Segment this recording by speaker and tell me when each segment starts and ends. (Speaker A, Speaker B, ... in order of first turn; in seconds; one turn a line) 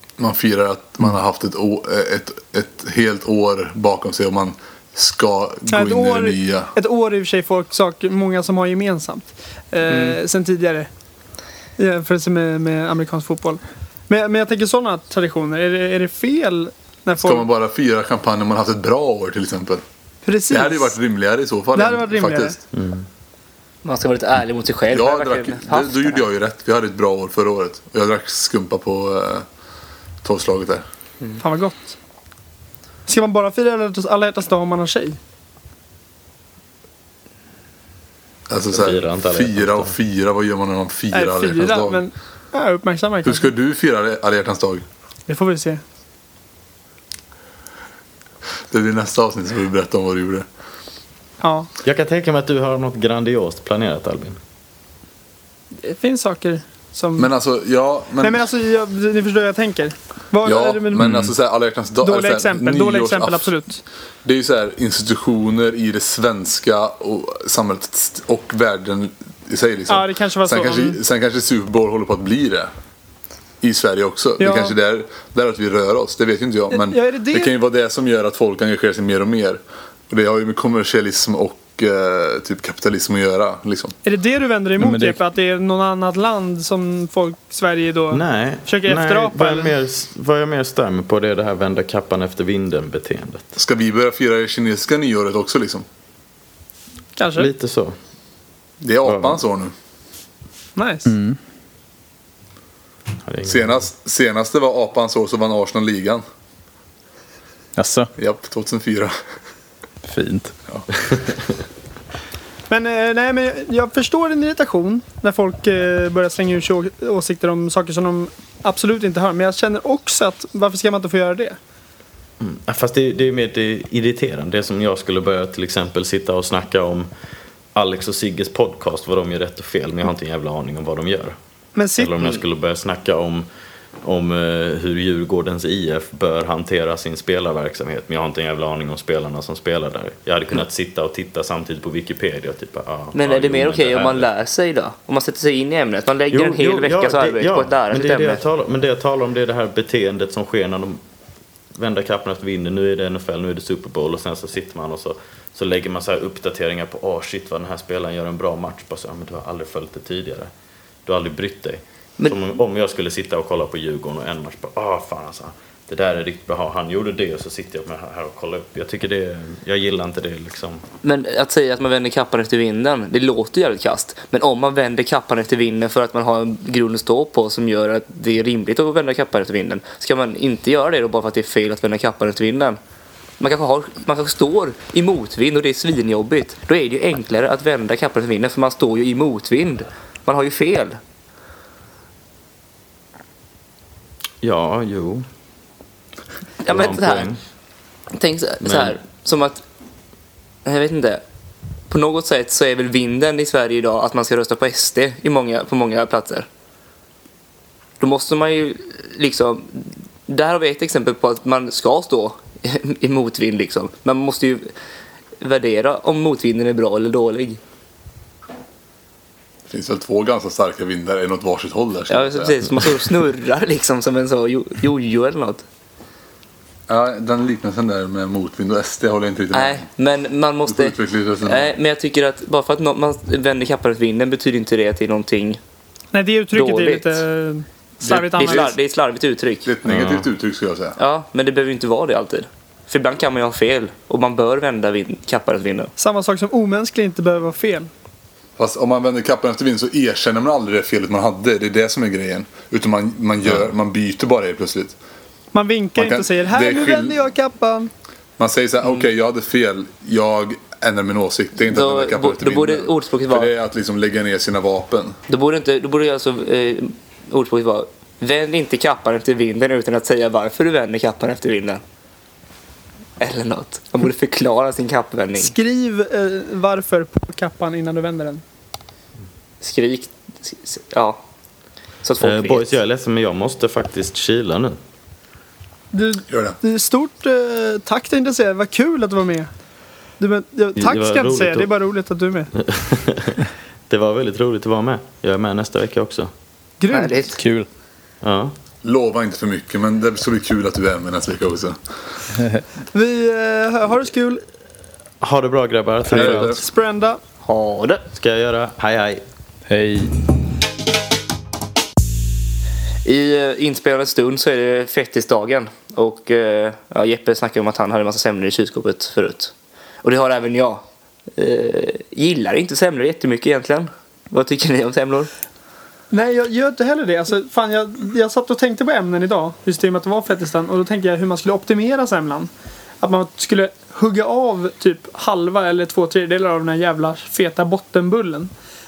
Speaker A: 0.2-6.7
Speaker B: 5.7-10.9
Speaker C: 9.9-10.2
Speaker B: 11.8-17.4
Speaker A: 17.2-19.8
Speaker B: 20.2-20.9
Speaker A: 20.5-22.6
Speaker B: 21.7-22.5
Speaker D: 22.7-23.1
Speaker C: 23.8-26.2
Speaker A: 24.9-29.4
Speaker A: 30.2-30.8
Speaker B: 31.4-31.9
Speaker B: 33.1-35.2
Speaker A: 38.5-42.0
Speaker D: 38.7-39.9
Speaker B: 41.1-43.5
Speaker A: 43.2-44.8
Speaker B: 45.3-45.8
Speaker A: 48.7-50.5
Speaker B: 51.4-51.7
Speaker D: 51.8-54.4
Speaker B: 55.8-57.3
Speaker A: 57.2-58.4
Speaker B: 58.2-61.2
Speaker A: 60.4-63.5
Speaker B: 62.0-63.8
Speaker A: 64.2-72.7
Speaker B: 69.9-71.0
Speaker A: 73.6-83.9
Speaker B: 74.4-74.7
Speaker B: 76.7-77.5
Speaker B: 84.0-89.7
Speaker E: 84.8-85.2
Speaker D: 88.1-93.5
Speaker A: 93.5-95.8
Speaker B: 97.2-97.5
Speaker D: 97.3-98.0
Speaker A: 98.8-99.7
Speaker D: 99.0-99.4
Speaker B: 100.8-101.1
Speaker E: 101.0-101.4
Speaker D: 103.2-103.8
Speaker A: 103.4-106.2
Speaker E: 107.8-108.1
Speaker A: 108.2-109.1
Speaker E: 110.0-110.5
Speaker D: 111.1-111.3
Speaker B: 112.7-121.6
Speaker D: 122.4-127.1
Speaker D: 127.7-131.3
Speaker B: 131.8-132.1
Speaker D: 132.0-133.4
Speaker D: 134.0-144.3
Speaker C: 143.1-148.4
Speaker D: 146.3-151.0
Speaker D: 151.7-160.5
Speaker D: 161.1-170.8
Speaker C: 171.0-182.8
Speaker C: 183.4-191.0
Speaker D: 194.4-195.2
Speaker C: 196.6-197.3
Speaker D: 196.7-197.4
Speaker C: 198.1-199.6
Speaker D: 198.6-198.9
Speaker C: 200.6-201.2
Speaker C: 201.9-206.5
Speaker C: 208.0-214.7
Speaker C: 215.4-217.6
Speaker A: 219.7-222.8
Speaker C: 222.1-225.6
Speaker A: 226.9-229.9
Speaker C: 229.5-235.6
Speaker A: 230.7-231.7
Speaker B: 236.1-238.7
Speaker C: 236.5-237.2
Speaker C: 238.0-239.7
Speaker A: 239.6-241.0
Speaker D: 239.8-240.2
Speaker C: 241.0-245.9
Speaker B: 246.0-247.9
Speaker A: 248.6-254.9
Speaker B: 255.5-257.9
Speaker A: 256.0-257.1
Speaker A: 258.4-265.2
Speaker C: 261.6-263.5
Speaker C: 265.3-271.8
Speaker C: 273.2-275.5
Speaker B: 275.4-278.4
Speaker C: 279.6-281.2
Speaker C: 282.0-282.7
Speaker D: 282.2-284.8
Speaker B: 285.9-289.5
Speaker A: 286.3-286.6
Speaker B: 290.2-292.5
Speaker D: 290.8-291.7
Speaker D: 292.6-296.3
Speaker B: 296.8-297.2
Speaker C: 296.9-297.4
Speaker E: 297.4-297.7
Speaker D: 298.2-298.5
Speaker A: 298.8-301.8
Speaker E: 302.4-302.6
Speaker B: 302.9-304.4
Speaker D: 305.2-306.6
Speaker A: 306.1-306.6
Speaker B: 306.2-307.2
Speaker C: 307.4-308.0
Speaker D: 308.1-309.2
Speaker E: 309.7-310.1
Speaker C: 313.0-320.8
Speaker C: 321.4-325.3
Speaker B: 326.1-332.5
Speaker B: 333.0-338.5